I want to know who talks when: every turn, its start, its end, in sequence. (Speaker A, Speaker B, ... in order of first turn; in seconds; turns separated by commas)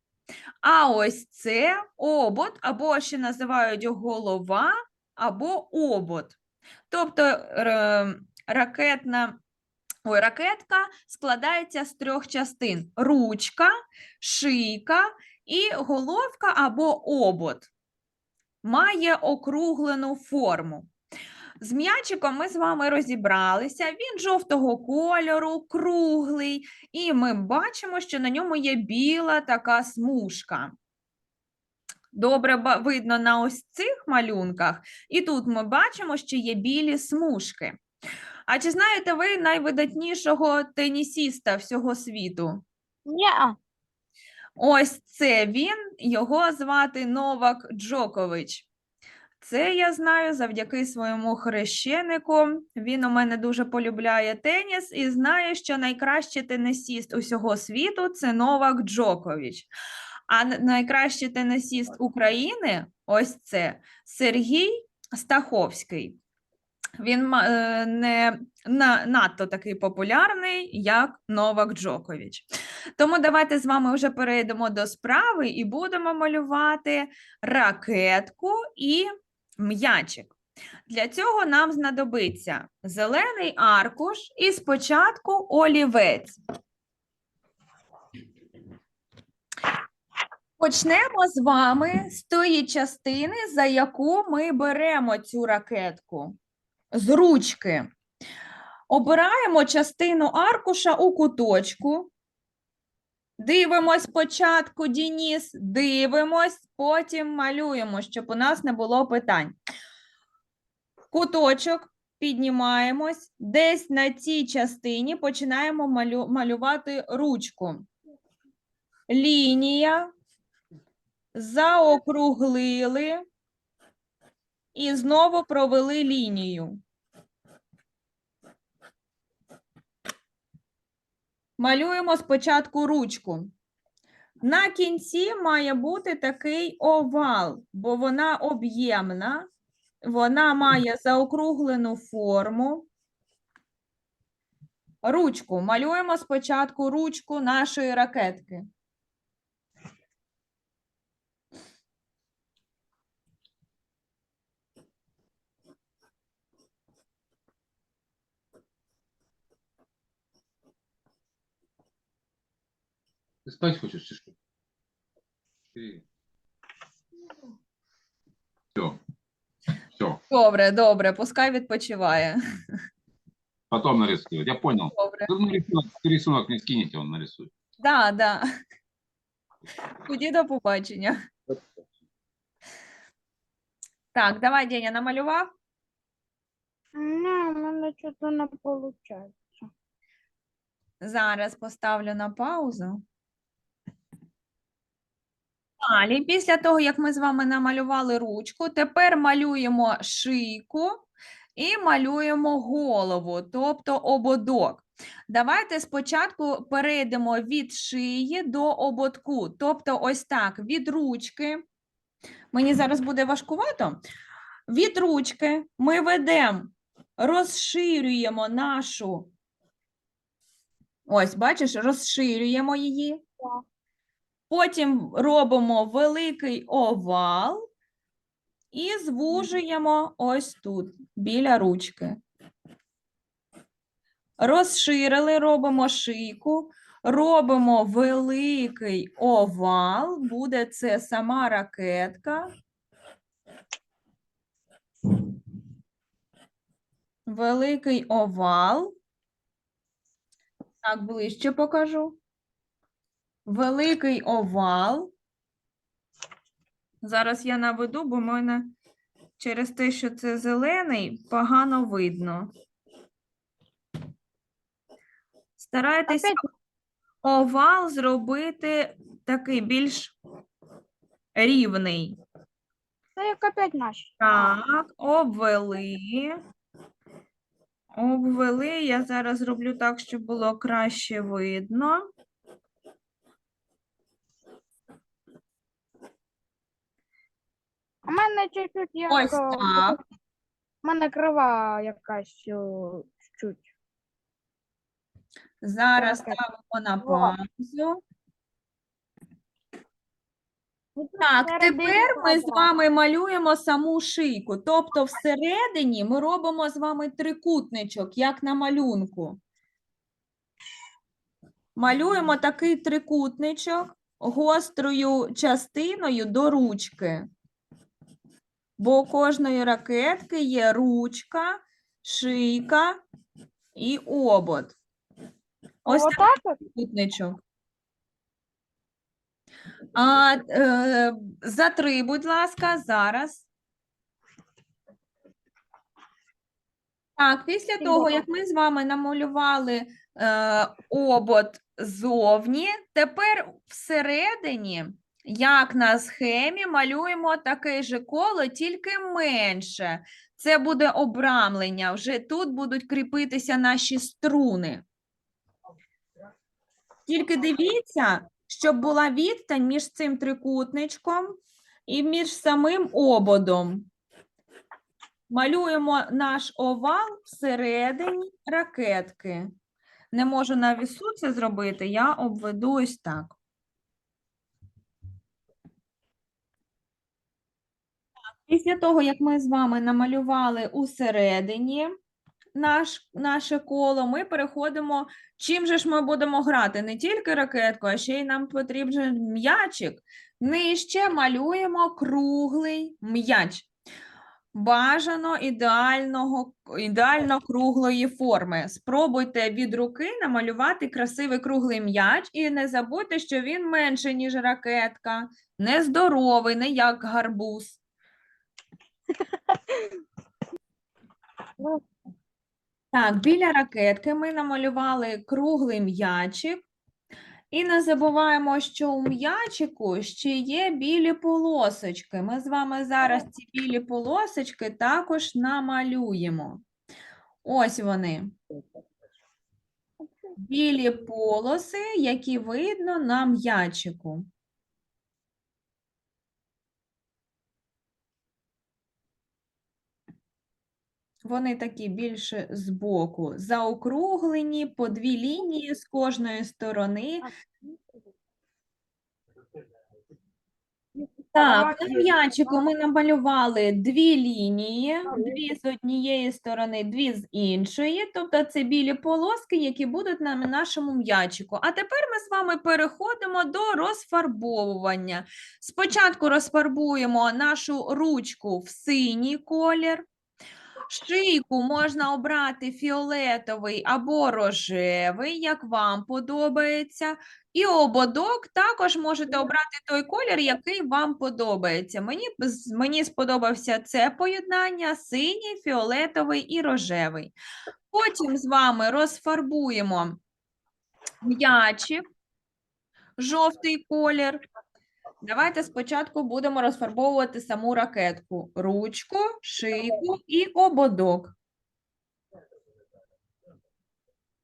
Speaker A: 0.6-6.4, Speaker A: 6.9-9.4, Speaker A: 10.1-17.7, Speaker A: 18.6-20.9, Speaker A: 21.6-30.7, Speaker A: 32.1-37.8, Speaker A: 38.5-42.6, Speaker B: 43.1-43.6, Speaker A: 44.6-48.7, Speaker A: 49.4-59.7, Speaker A: 60.3-66.2, Speaker A: 67.0-72.5, Speaker A: 73.0-79.1, Speaker A: 79.6-80.3, Speaker A: 80.9-86.4, Speaker A: 90.6-96.3, Speaker A: 96.9-97.9, Speaker A: 98.9-102.1, Speaker A: 103.4-109.5, Speaker A: 111.1-117.8, Speaker A: 119.1-120.1, Speaker A: 121.3-123.2, Speaker A: 124.7-126.8, Speaker A: 131.6-133.5, Speaker A: 134.4-139.5, Speaker A: 140.0-142.9, Speaker A: 145.0-148.7, Speaker C: 163.4-164.3, Speaker C: 165.7-166.0, Speaker C: 168.8-169.0, Speaker C: 169.9-170.2, Speaker A: 170.3-172.4, Speaker C: 173.7-177.5, Speaker A: 174.9-175.3, Speaker A: 177.8-178.4, Speaker A: 180.0-181.2, Speaker A: 184.1-185.5, Speaker B: 187.0-189.7, Speaker A: 191.0-193.0, Speaker A: 195.8-211.6, Speaker A: 212.5-214.0, Speaker A: 214.7-219.3, Speaker A: 221.1-223.2, Speaker A: 224.5-227.6, Speaker A: 228.7-232.2, Speaker A: 234.4-242.5, Speaker A: 247.3-248.9, Speaker A: 250.8-252.2, Speaker A: 253.5-255.1, Speaker A: 257.0-258.7, Speaker A: 259.4-262.5, Speaker A: 265.6-266.4, Speaker B: 266.1-266.4, Speaker A: 267.2-270.1, Speaker A: 271.4-272.2, Speaker B: 273.2-274.6, Speaker A: 274.2-276.4, Speaker A: 277.9-282.0, Speaker B: 288.1-290.0, Speaker A: 289.1-290.0, Speaker B: 290.8-293.7, Speaker A: 295.6-298.0, Speaker B: 296.0-296.4, Speaker B: 297.0-297.3, Speaker B: 301.0-302.7, Speaker A: 301.2-309.4, Speaker A: 311.8-317.2, Speaker A: 318.8-323.0, Speaker A: 323.8-324.8, Speaker A: 325.9-327.4, Speaker B: 325.9-326.6, Speaker A: 329.9-333.5, Speaker A: 337.2-354.8, Speaker B: 337.8-338.2, Speaker A: 357.1-361.2, Speaker A: 361.9-363.9, Speaker A: 365.3-369.5, Speaker A: 370.1-373.4, Speaker A: 378.5-381.9, Speaker A: 382.6-393.7, Speaker A: 394.5-407.8, Speaker A: 412.9-416.6, Speaker A: 417.5-426.6, Speaker A: 427.4-428.3, Speaker A: 430.4-434.3, Speaker A: 441.2-447.3, Speaker B: 447.2-447.8, Speaker B: 451.0-452.5, Speaker A: 451.3-470.1, Speaker B: 455.1-455.4, Speaker A: 470.9-487.3, Speaker A: 487.9-490.2, Speaker A: 491.2-492.0, Speaker A: 493.2-494.4, Speaker A: 495.2-501.4